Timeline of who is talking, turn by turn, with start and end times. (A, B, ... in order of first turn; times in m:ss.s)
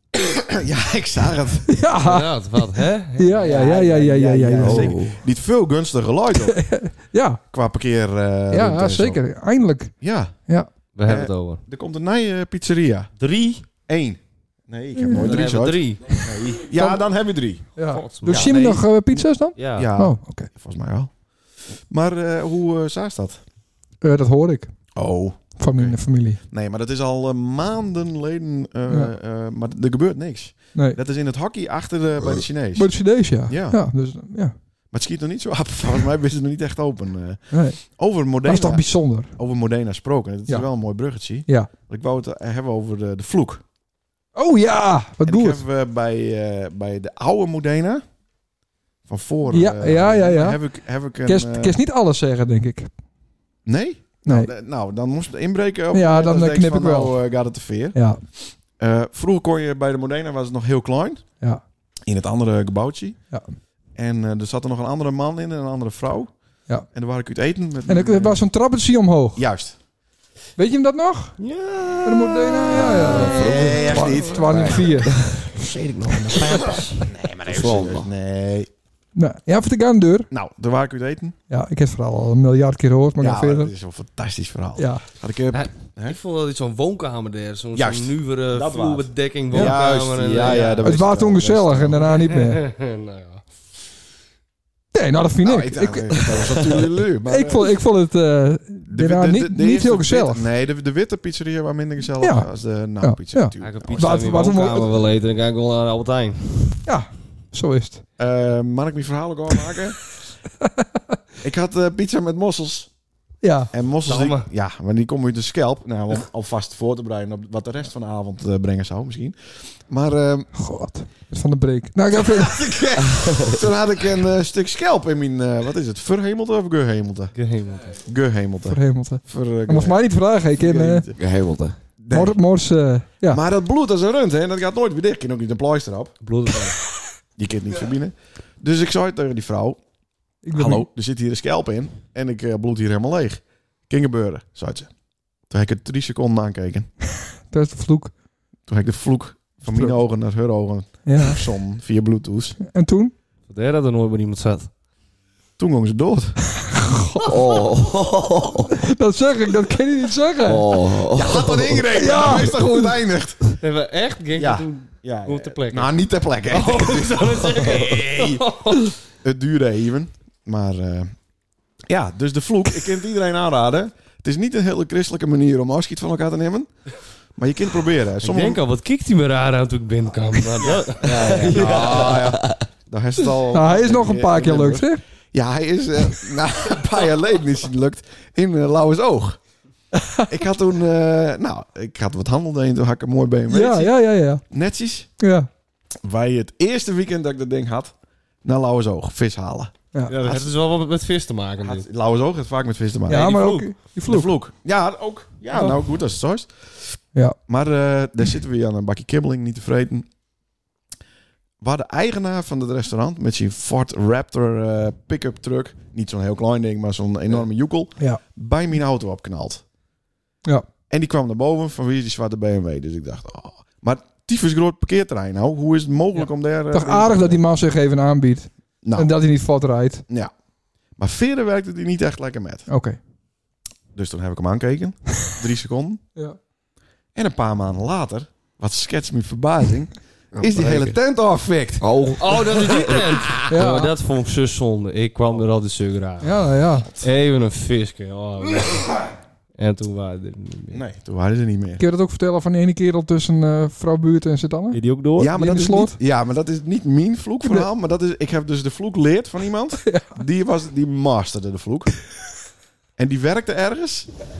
0:00.2-0:01.7 A
0:01.7-0:02.3 B
0:02.0-0:03.5 C
0:03.2-0:04.9 B
0:03.4-0:06.7 A
0:04.6-0:05.1 D
0:06.4-0:07.4 B
0:07.5-0:09.2 A
0:08.5-0:10.0 B
0:10.0-0:10.4 A
0:11.0-0:11.6 C
0:11.0-0:13.1 A
0:13.2-0:13.6 C
0:13.8-0:17.7 A
0:15.0-0:15.3 B
0:15.1-0:16.2 C
0:16.7-0:17.0 B
0:17.8-0:20.5 B
0:17.9-0:18.6 C
0:18.3-0:21.1 A
0:19.6-0:19.9 C
0:21.9-0:23.4 A
0:24.0-0:24.7 B
0:24.9-0:33.8 A
0:25.6-0:26.4 B
0:32.7-0:34.5 B
0:34.9-0:43.6 A
0:37.5-0:37.8 B
0:38.4-0:39.3 B
0:44.3-0:45.6 B
0:45.2-0:48.0 A
0:49.1-0:51.8 A
0:49.5-0:50.6 B
0:51.2-0:52.9 B
0:53.6-1:01.2 A
0:54.2-0:54.5 B
0:55.9-0:57.2 B
0:57.9-0:58.2 B
1:02.0-1:03.2 A
1:04.0-1:06.3 A
1:06.9-1:08.4 A
1:07.9-1:09.4 B
1:09.4-1:09.8 A
1:10.6-1:11.4 B
1:11.4-1:14.3 C
1:12.0-1:15.1 B
1:12.9-1:15.4 D
1:13.2-1:14.9 A
1:15.3-1:17.1 C
1:17.0-1:18.7 A
1:17.5-1:18.1 D
1:19.2-1:20.3 B
1:20.3-1:21.4 A
1:21.5-1:23.7 B
1:23.2-1:26.2 A
1:24.8-1:25.0 B
1:25.5-1:30.9 C
1:27.7-1:32.1 A
1:30.8-1:32.6 B
1:32.2-1:33.4 C
1:34.9-1:36.5 B
1:35.4-1:37.7 A
1:37.2-1:40.5 B
1:38.9-1:44.2 A
1:42.2-1:42.5 B
1:43.0-1:44.9 B
1:43.6-1:46.8 C
1:46.8-1:48.0 B
1:48.2-1:50.0 A
1:51.4-1:52.9 A
1:53.4-1:53.7 B
1:53.7-2:00.5 A
1:54.1-1:54.4 C
2:00.5-2:02.7 B
2:02.1-2:07.3 A
2:07.3-2:08.0 C
2:08.0-2:11.2 A
2:08.7-2:11.1 B
2:11.2-2:11.8 D
2:12.0-2:12.4 A
2:12.1-2:13.4 B
2:13.3-2:16.1 A
2:16.2-2:16.8 C
2:17.4-2:19.8 A
2:20.4-2:20.9 B
2:20.5-2:24.9 A
2:25.5-2:26.9 A
2:27.5-2:28.1 B
2:28.7-2:32.6 A
2:29.6-2:30.0 B
2:31.0-2:31.4 B
2:32.6-2:33.1 B
2:33.5-2:34.7 C
2:35.6-2:36.4 A
2:36.7-2:37.3 B
2:37.2-2:38.7 D
2:38.8-2:40.7 B
2:40.4-2:41.8 D
2:41.1-2:43.4 A
2:41.9-2:43.0 B
2:43.6-2:48.9 C
2:44.4-2:48.4 A
2:49.2-2:51.1 A
2:51.9-2:56.7 A
2:57.4-2:58.6 A
2:58.2-3:02.3 C
3:00.7-3:09.4 A
3:01.2-3:02.6 D
3:03.5-3:05.0 B
3:10.0-3:10.3 B
3:10.3-3:15.1 A
3:13.5-3:14.4 B
3:15.2-3:15.5 B
3:16.0-3:20.5 A
3:20.1-3:21.8 C
3:21.6-3:30.1 A
3:23.1-3:24.3 B
3:23.1-3:23.7 C
3:31.6-3:39.6 A
3:40.9-3:47.4 A
3:46.2-3:50.0 B
3:48.8-3:49.2 A
3:51.0-3:52.7 A
3:52.7-3:53.0 B
3:53.9-3:56.0 A
3:57.1-4:01.9 A
4:00.3-4:01.0 D
4:01.8-4:02.5 D
4:02.2-4:06.5 C
4:02.6-4:03.2 A
4:03.5-4:03.9 B
4:06.2-4:06.9 B
4:07.0-4:09.0 C
4:09.6-4:10.8 C
4:10.7-4:11.8 A
4:11.8-4:14.8 B
4:14.7-4:15.3 C
4:15.2-4:21.9 A
4:15.3-4:16.0 B
4:19.8-4:20.2 B
4:23.0-4:24.1 A